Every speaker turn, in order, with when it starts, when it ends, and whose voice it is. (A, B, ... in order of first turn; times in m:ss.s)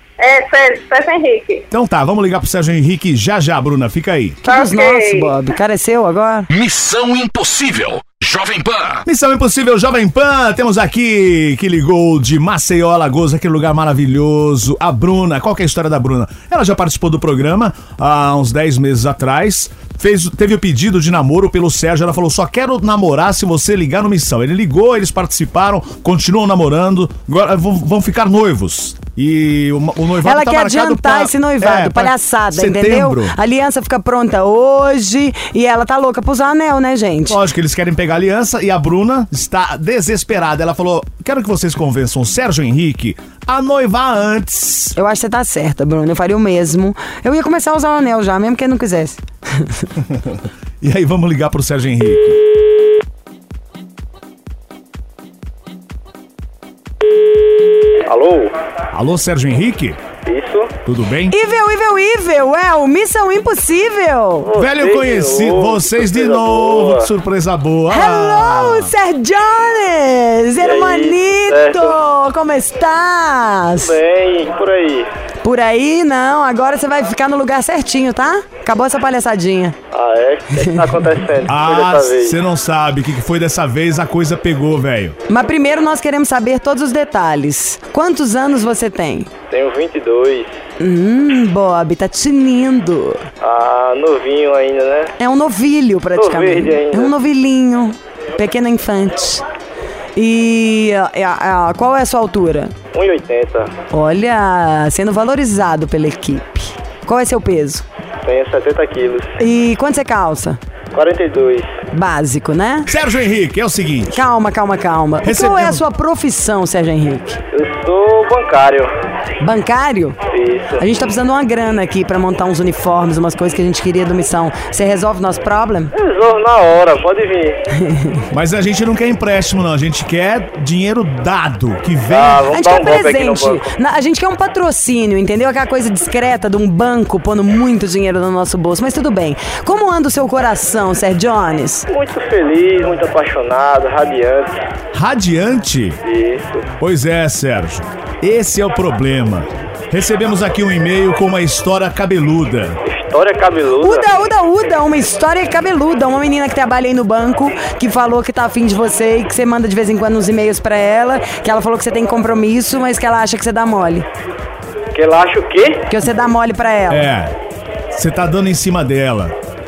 0:00.2-0:01.7 A
0:01.7-0:04.4 B
0:04.4-0:05.4 A
0:04.4-0:06.5 C
0:06.5-0:09.0 D
0:09.1-0:33.4 B
0:30.2-0:37.4 C
0:37.3-0:45.0 B
0:45.0-0:49.9 C
0:50.2-0:52.4 B
0:58.0-0:58.5 E
0:58.9-1:00.0 B
1:00.2-1:00.7 E
1:00.9-1:01.3 B
1:01.3-1:04.5 C
1:04.4-1:07.1 E
1:04.6-1:08.9 B
1:07.9-1:14.0 C
1:10.6-1:12.0 E
1:13.8-1:15.1 E
1:15.4-1:19.8 C
1:19.9-1:22.4 E
1:20.6-1:20.9 C
1:21.5-1:25.2 B
1:25.3-1:29.3 C
1:29.5-1:30.5 E
1:30.8-1:33.2 C
1:33.4-1:35.1 E
1:35.2-1:39.4 C
1:36.2-1:37.1 E
1:40.2-1:42.7 C
1:42.9-1:43.7 E
1:43.9-1:47.8 C
1:48.2-1:49.4 E
1:49.4-1:50.6 C
1:50.9-1:51.8 E
1:51.9-1:52.9 C
1:52.9-1:54.2 B
1:54.1-1:57.4 C
1:55.2-1:55.8 B
1:57.5-1:58.9 E
1:59.4-2:00.2 C
2:00.3-2:00.9 E
2:00.8-2:05.9 C
2:05.9-2:07.6 E
2:07.8-2:08.2 C
2:08.3-2:12.5 B
2:12.1-2:13.7 E
2:12.5-2:21.9 C
2:21.9-2:24.6 E
2:24.9-2:26.0 B
2:26.0-2:26.7 E
2:26.8-2:32.8 B
2:32.8-2:34.1 E
2:33.8-2:44.1 C
2:44.9-2:45.9 E
2:45.9-2:47.1 C
2:46.9-2:47.4 B
2:47.9-2:49.4 B